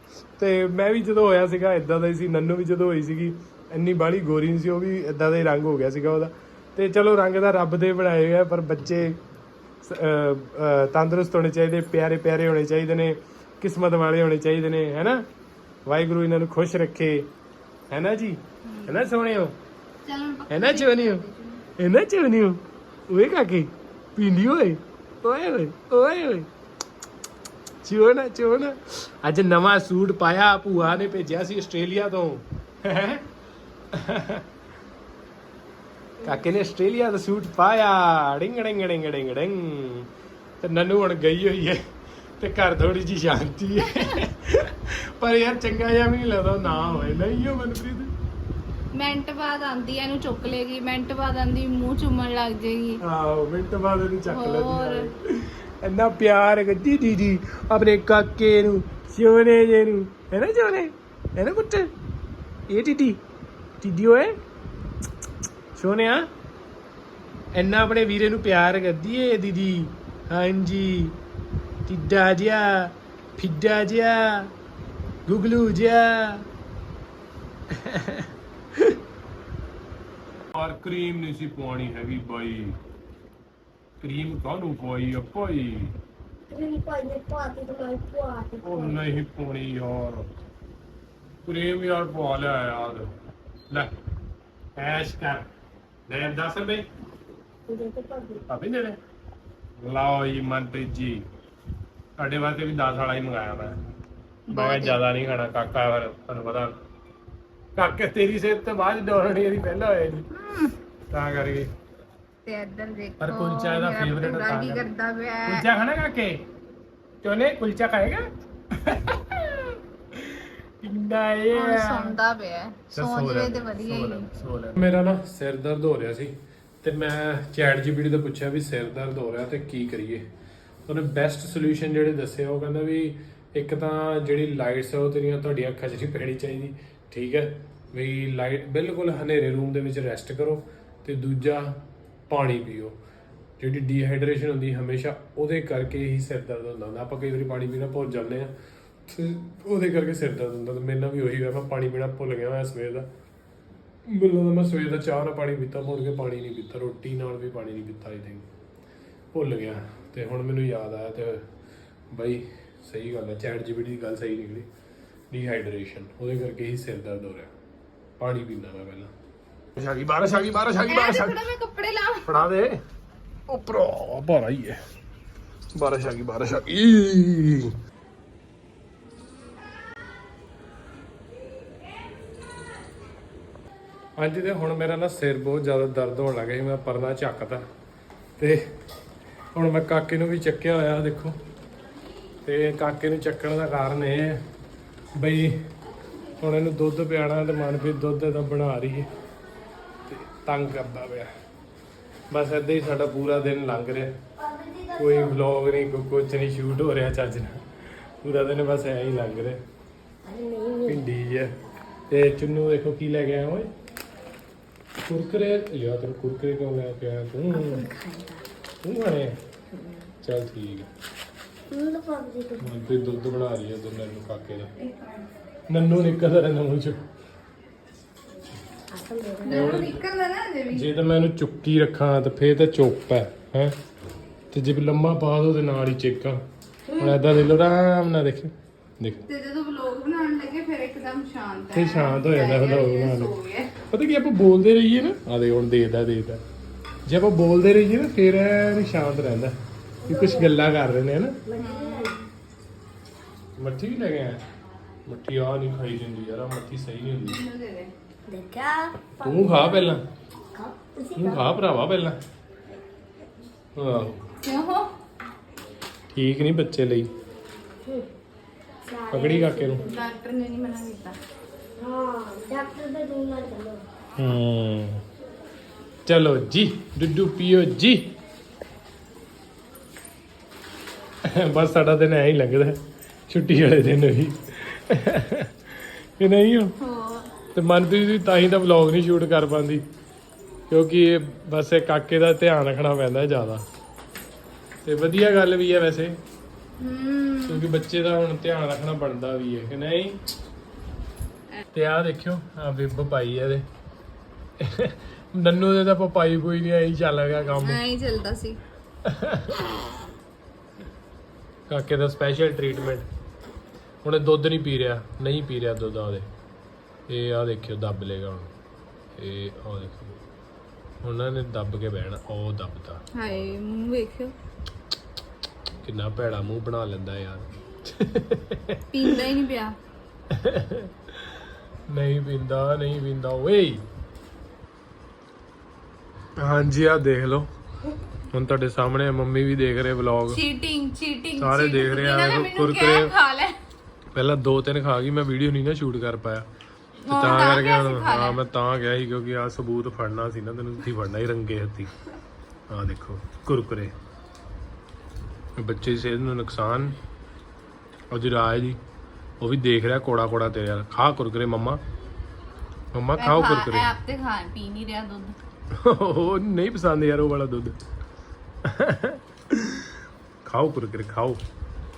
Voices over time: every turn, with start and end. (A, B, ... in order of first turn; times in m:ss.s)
0:00.4-0:09.2 A
0:09.8-0:15.2 A
0:15.8-0:17.3 A
0:17.9-0:19.5 A
0:18.6-0:19.0 B
0:20.0-0:21.6 B
0:20.5-0:21.2 A
0:21.8-0:26.5 A
0:27.8-0:33.2 A
0:33.9-0:34.4 A
0:36.2-0:40.1 A
0:40.6-0:41.8 A
0:42.4-0:48.1 A
0:43.9-0:44.2 B
0:46.7-0:47.2 B
0:48.9-0:53.0 B
0:53.0-1:01.9 A
0:54.3-0:55.1 B
1:02.7-1:03.2 A
1:03.8-1:04.4 A
1:05.7-1:06.3 A
1:07.5-1:11.2 A
1:11.8-1:14.5 A
1:15.3-1:16.4 A
1:17.7-1:19.0 A
1:20.5-1:22.8 A
1:24.0-1:25.9 A
1:26.5-1:29.0 C
1:28.6-1:30.3 A
1:31.4-1:33.1 A
1:34.8-1:35.5 A
1:36.1-1:36.8 A
1:37.7-1:38.4 C
1:38.5-1:39.0 A
1:39.8-1:41.2 A
1:42.2-1:43.7 A
1:44.5-1:45.0 B
1:44.5-1:46.7 A
1:47.8-1:50.3 A
1:50.3-1:50.7 B
1:51.1-1:51.7 A
1:52.4-1:55.7 B
1:53.2-1:54.9 A
1:55.4-1:56.4 A
1:57.2-2:02.2 A
2:01.5-2:04.3 B
2:02.9-2:10.3 A
2:10.9-2:23.0 A
2:23.6-2:28.5 A
2:29.1-2:33.1 A
2:34.0-2:38.4 A
2:39.3-2:41.5 A
2:42.1-2:44.7 A
2:45.3-2:47.5 A
2:48.2-2:49.1 A
2:49.8-2:51.4 A
2:50.8-2:52.5 B
2:52.2-2:52.8 A
2:53.5-2:54.8 A
2:55.7-2:57.8 A
3:04.2-3:07.6 A
3:08.4-3:08.7 A
3:09.5-3:11.4 A
3:12.4-3:14.4 A
3:15.2-3:15.6 A
3:16.4-3:19.1 A
3:20.1-3:21.3 A
3:22.3-3:24.2 A
3:24.4-3:25.4 C
3:25.0-3:29.6 A
3:30.2-3:31.0 C
3:30.8-3:31.5 A
3:32.1-3:33.7 A
3:35.0-3:37.9 A
3:37.5-3:38.4 C
3:38.8-3:39.4 A
3:39.7-3:40.1 C
3:40.2-3:40.9 A
3:41.7-3:42.7 C
3:42.6-3:44.7 A
3:44.8-3:45.2 B
3:45.7-3:47.0 A
3:48.9-3:49.8 C
3:49.4-3:50.8 B
3:49.5-3:50.0 A
3:50.7-3:53.8 A
3:54.5-3:56.4 A
3:56.9-3:57.2 C
3:57.0-3:59.2 A
3:59.2-4:03.8 B
4:01.7-4:06.4 A
4:07.0-4:11.4 A
4:10.0-4:10.6 C
4:11.4-4:12.2 C
4:11.6-4:12.3 B
4:13.6-4:14.4 A
4:15.0-4:17.4 A
4:17.2-4:17.9 B
4:18.3-4:19.9 C
4:19.2-4:20.0 A
4:20.5-4:21.5 C
4:21.1-4:22.2 A
4:23.7-4:24.2 A
4:24.4-4:24.9 B
4:26.1-4:27.1 A
4:28.9-4:30.0 C
4:29.1-4:29.9 A
4:29.8-4:31.2 B
4:31.8-4:33.8 C
4:34.2-4:35.0 A
4:36.0-4:38.1 A
4:41.2-4:46.8 A
4:46.8-4:47.3 B
4:47.5-4:49.8 A
4:50.7-4:53.6 A
4:54.8-4:56.2 A
4:56.8-4:57.6 B
4:57.5-5:00.2 A
5:01.7-5:03.6 A
5:04.6-5:07.8 A
5:07.6-5:08.6 B
5:09.0-5:09.7 A
5:11.7-5:13.1 A
5:14.0-5:16.3 A
5:17.1-5:18.5 A
5:19.2-5:20.2 A
5:21.0-5:23.5 A
5:23.1-5:24.3 B
5:25.8-5:29.1 A
5:28.9-5:29.8 B
5:30.3-5:31.4 A
5:31.9-5:33.8 A
5:36.4-5:37.5 A
5:38.3-5:40.4 A
5:40.3-5:43.6 B
5:41.4-5:43.1 A
5:44.1-5:46.4 A
5:47.0-5:48.4 B
5:47.1-5:51.9 A
5:52.7-5:53.9 A
5:55.6-5:57.0 A
5:58.1-5:58.8 A
5:59.4-6:01.8 A
6:02.9-6:03.9 A
6:03.2-6:05.4 B
6:05.7-6:07.8 A
6:08.6-6:11.4 A